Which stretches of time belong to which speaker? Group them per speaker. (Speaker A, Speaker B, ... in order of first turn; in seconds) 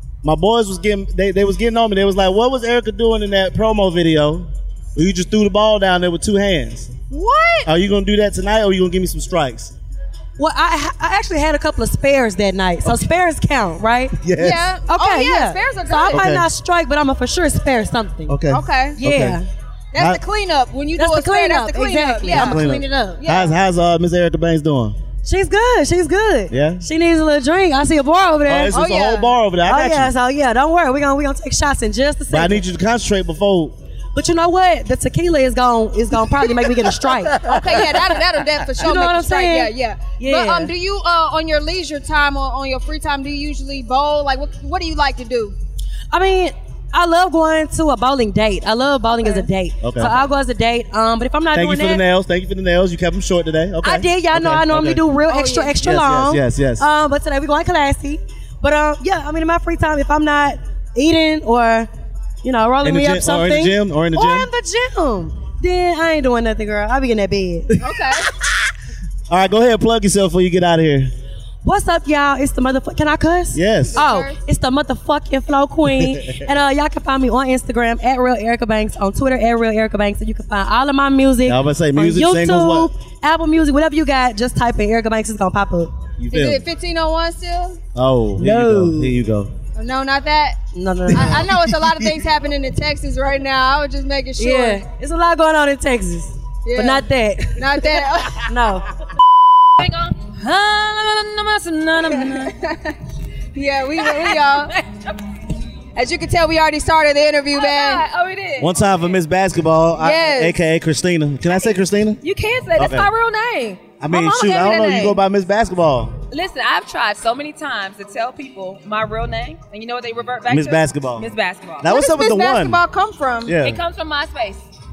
Speaker A: 0.2-6.9, 7.7-9.7, 14.2-14.7, 16.1-16.5, 18.3-19.4, 20.0-20.2, 22.3-25.0, 26.5-26.8, 28.4-30.1, 32.3-33.8, 37.2-37.9, 49.8-50.2, 51.5-55.0, 55.8-56.9, 62.8-64.5, 69.3-71.1, 73.5-74.0, 76.0-76.3, 81.4-82.9, 86.2-86.6, 87.9-89.5, 91.1-92.1, 108.6-112.2, 112.8-113.1, 114.0-116.1, 120.5-121.3, 121.8-122.8, 123.4-123.8
Speaker B: 7.1-7.7, 14.4-16.3, 18.5-19.0, 19.9-23.5, 28.7-29.3, 37.4-45.5, 49.0-49.5, 55.3-55.7, 67.8-68.3, 73.9-74.4, 86.3-87.8, 89.8-94.8, 96.7-98.5, 102.1-103.0, 103.5-104.7, 106.0-108.0, 110.0-110.5, 121.8-123.6
Speaker C: 10.4-14.2, 14.8-18.4, 19.0-19.5, 20.9-23.2, 25.2-28.7, 29.6-32.6, 34.1-37.4, 38.8-40.7, 46.1-52.0, 53.8-61.9, 62.4-67.8, 71.6-85.9, 88.4-89.2, 90.7-91.5, 94.4-97.6, 98.5-98.8
Speaker D: 99.8-102.5, 104.0-105.2, 107.5-108.9, 112.2-115.2, 116.3-121.9, 123.5-124.6